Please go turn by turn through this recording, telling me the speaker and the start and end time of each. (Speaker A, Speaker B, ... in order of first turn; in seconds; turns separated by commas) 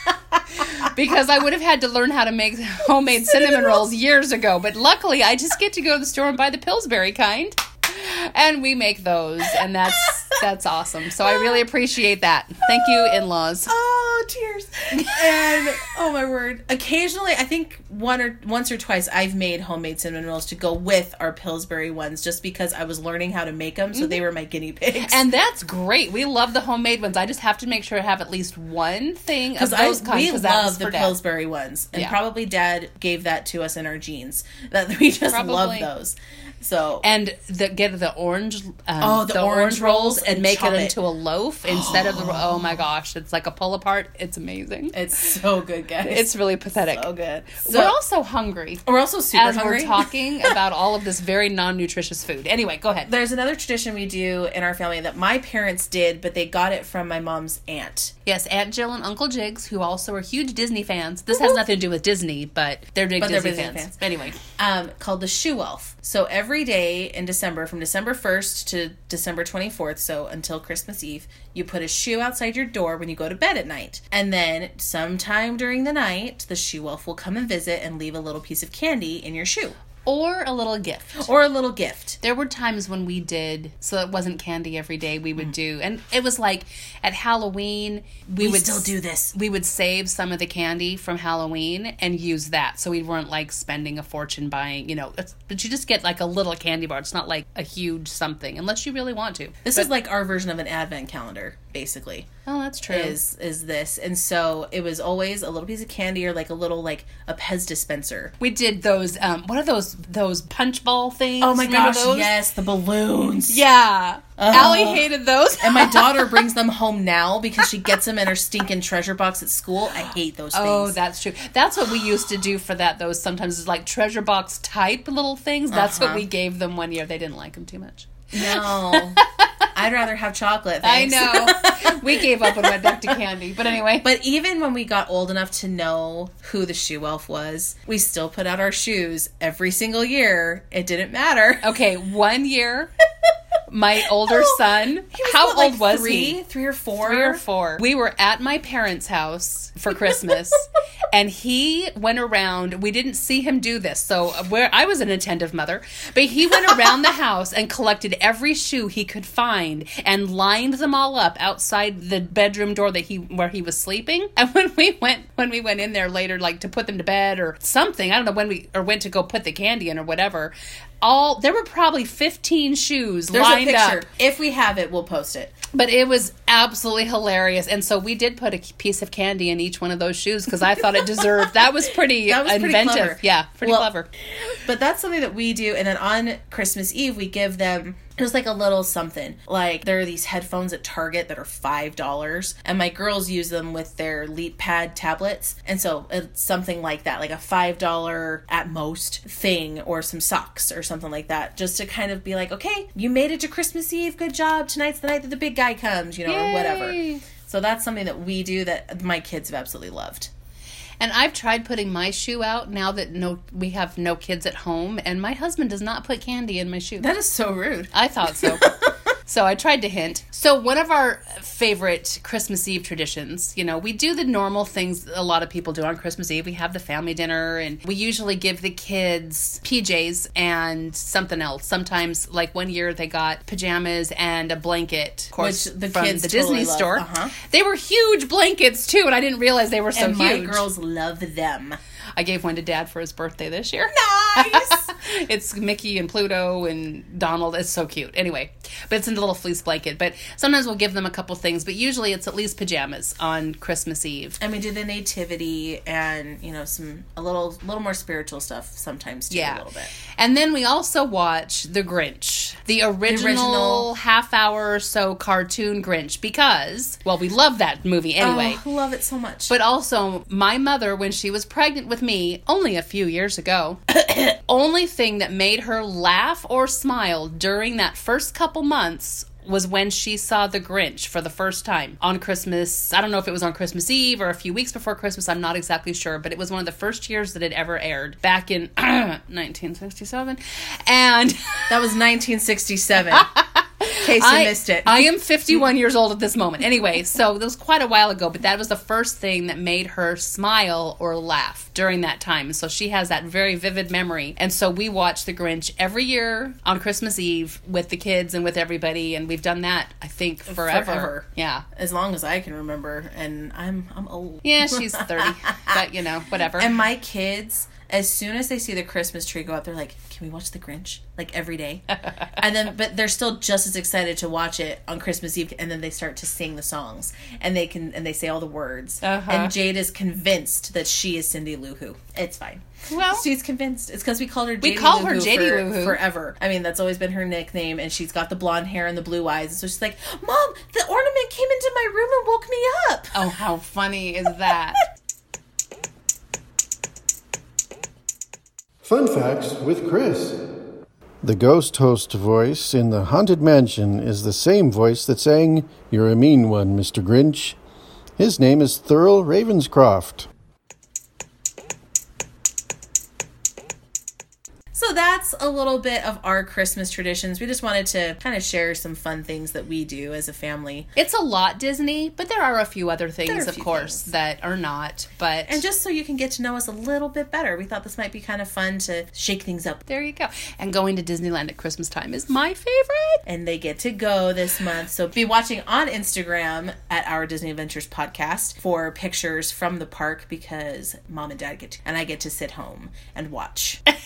Speaker A: 0.6-13.7, Speaker B: 3.2-3.8, Speaker B: 9.5-10.4, Speaker B: 11.2-11.6, Speaker B: 12.7-25.2, Speaker A: 15.1-15.6, Speaker A: 23.9-24.2, Speaker A: 25.0-31.1, Speaker B: 29.5-37.1, Speaker A: 35.3-35.9, Speaker A: 37.0-45.0, Speaker B: 39.0-41.0, Speaker B: 41.7-42.7, Speaker B: 44.9-46.3, Speaker A: 46.0-47.1, Speaker B: 46.8-48.0, Speaker A: 47.6-53.1, Speaker B: 48.9-50.5, Speaker B: 53.1-58.1, Speaker A: 58.2-64.4, Speaker B: 61.3-61.6, Speaker B: 63.2-64.0, Speaker B: 64.6-79.8, Speaker A: 80.0-81.3, Speaker B: 81.2-82.2, Speaker A: 82.2-99.9, Speaker B: 88.4-89.3, Speaker B: 99.6-102.3, Speaker A: 102.5-103.2, Speaker B: 102.9-108.3, Speaker A: 108.4-112.3, Speaker B: 111.4-113.6, Speaker A: 113.5-116.4, Speaker B: 114.4-115.1, Speaker B: 115.6-121.0, Speaker A: 120.5-129.7, Speaker B: 125.7-126.2, Speaker B: 128.3-129.2, Speaker B: 129.7-133.2, Speaker A: 130.8-134.1, Speaker B: 134.0-141.8, Speaker A: 141.6-142.9, Speaker A: 143.7-146.4, Speaker B: 144.2-147.4, Speaker A: 147.0-174.0, Speaker B: 173.3-175.6, Speaker A: 175.7-184.1, Speaker B: 181.0-181.5, Speaker B: 182.0-183.9, Speaker B: 184.4-210.3, Speaker A: 206.2-207.2, Speaker A: 211.0-217.1, Speaker B: 217.0-218.8, Speaker A: 217.9-218.7, Speaker A: 219.2-240.7, Speaker B: 235.4-237.3, Speaker B: 239.9-241.8, Speaker A: 242.2-254.4, Speaker B: 243.9-244.9, Speaker B: 254.4-259.9, Speaker A: 259.3-268.6, Speaker B: 263.1-263.9, Speaker B: 268.2-269.5, Speaker A: 269.5-291.8, Speaker B: 291.7-293.3, Speaker A: 293.1-311.6, Speaker B: 293.9-295.6, Speaker B: 310.5-315.8, Speaker A: 314.4-316.7, Speaker B: 316.5-321.8, Speaker B: 322.4-343.2, Speaker A: 329.0-329.5, Speaker A: 332.9-333.2, Speaker A: 334.6-336.0, Speaker A: 343.1-344.8, Speaker C: 348.8-350.4, Speaker C: 351.2-357.6, Speaker C: 358.2-360.3, Speaker B: 364.7-370.9, Speaker A: 370.9-375.6, Speaker B: 373.3-374.1, Speaker B: 375.5-379.8, Speaker A: 379.9-383.2, Speaker B: 383.2-393.8